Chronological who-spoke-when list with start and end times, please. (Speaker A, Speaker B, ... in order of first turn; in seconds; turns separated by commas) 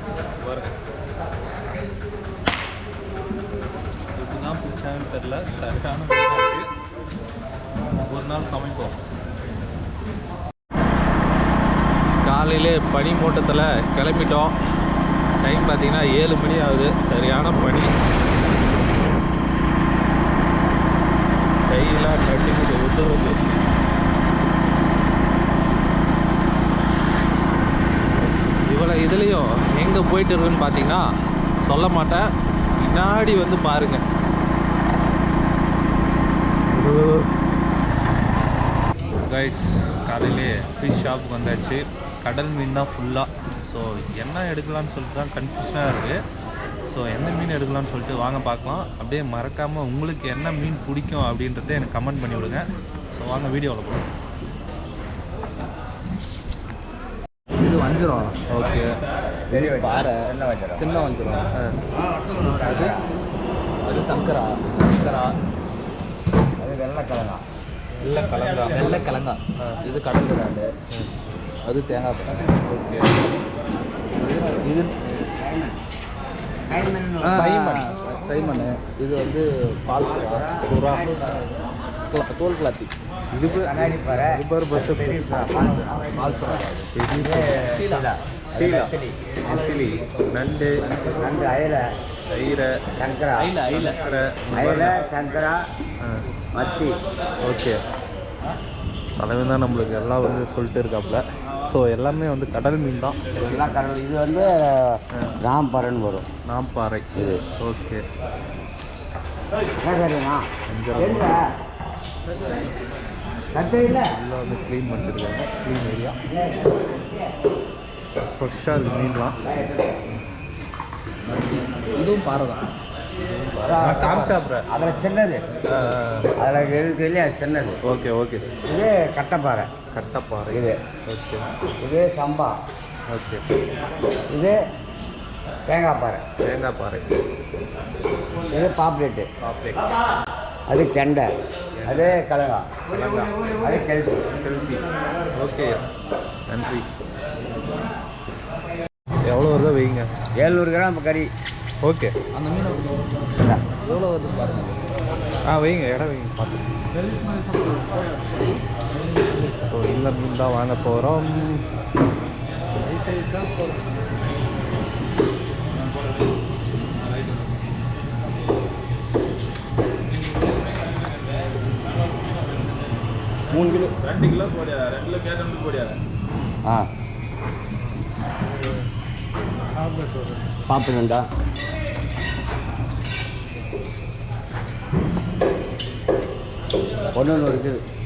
Speaker A: 0.4-0.8, Speaker A: 4.2-6.7, Speaker A: 8.0-9.0, Speaker A: 12.2-14.6, Speaker A: 15.4-17.9, Speaker A: 21.6-23.4, Speaker A: 28.6-31.1, Speaker A: 31.6-32.3, Speaker A: 32.8-34.0, Speaker A: 36.7-37.3, Speaker A: 39.2-46.2, Speaker A: 46.9-54.1, Speaker B: 57.6-58.4, Speaker A: 58.5-58.9, Speaker B: 59.5-61.4, Speaker C: 59.5-60.9, Speaker A: 61.1-61.7, Speaker B: 62.2-63.0, Speaker B: 63.9-64.9, Speaker A: 64.7-65.3, Speaker C: 66.6-67.4, Speaker A: 68.0-69.0, Speaker B: 68.7-70.7, Speaker A: 69.6-70.0, Speaker B: 71.7-72.6, Speaker A: 72.4-73.2, Speaker B: 74.2-74.7, Speaker A: 74.4-74.9, Speaker C: 75.3-75.8, Speaker C: 76.7-77.4, Speaker B: 77.2-81.0, Speaker A: 77.3-78.0, Speaker C: 80.2-81.4, Speaker A: 80.6-81.2, Speaker B: 82.1-82.9, Speaker A: 83.3-86.1, Speaker C: 83.5-86.6, Speaker B: 86.1-87.1, Speaker A: 86.9-87.8, Speaker C: 87.1-89.2, Speaker B: 87.6-88.1, Speaker A: 88.5-90.9, Speaker B: 89.7-91.4, Speaker C: 91.1-91.9, Speaker A: 92.3-92.9, Speaker C: 93.0-93.6, Speaker B: 93.4-94.0, Speaker A: 93.6-95.0, Speaker C: 94.5-95.6, Speaker A: 96.0-96.3, Speaker C: 96.5-97.0, Speaker A: 97.4-97.8, Speaker A: 99.2-103.4, Speaker C: 103.4-106.3, Speaker A: 106.5-108.0, Speaker C: 107.2-107.4, Speaker C: 109.8-111.5, Speaker A: 110.7-111.3, Speaker C: 113.5-114.1, Speaker A: 114.0-116.2, Speaker C: 116.3-117.1, Speaker A: 118.1-119.4, Speaker C: 119.5-119.9, Speaker B: 121.3-122.6, Speaker A: 123.3-124.7, Speaker C: 123.6-125.4, Speaker A: 125.7-126.3, Speaker C: 126.4-127.8, Speaker A: 127.8-128.5, Speaker C: 128.6-129.7, Speaker A: 129.9-131.5, Speaker C: 130.5-130.8, Speaker C: 131.8-132.6, Speaker A: 133.1-133.4, Speaker C: 134.3-134.6, Speaker C: 135.7-136.2, Speaker A: 136.4-137.2, Speaker C: 138.5-139.3, Speaker A: 139.4-139.8, Speaker C: 140.7-141.3, Speaker A: 141.8-142.1, Speaker C: 141.8-142.8, Speaker A: 142.9-143.3, Speaker C: 143.4-144.3, Speaker A: 144.3-144.8, Speaker A: 145.3-145.8, Speaker A: 146.5-146.9, Speaker A: 149.2-150.1, Speaker C: 150.3-151.3, Speaker A: 151.8-152.2, Speaker B: 152.3-152.9, Speaker B: 153.7-154.8, Speaker A: 155.4-156.7, Speaker B: 157.1-158.5, Speaker B: 159.1-159.4, Speaker A: 159.5-161.6, Speaker B: 162.8-163.8, Speaker A: 162.9-163.3, Speaker C: 173.5-173.8, Speaker A: 174.2-175.9, Speaker A: 179.9-180.5, Speaker C: 180.6-181.3, Speaker C: 187.1-187.8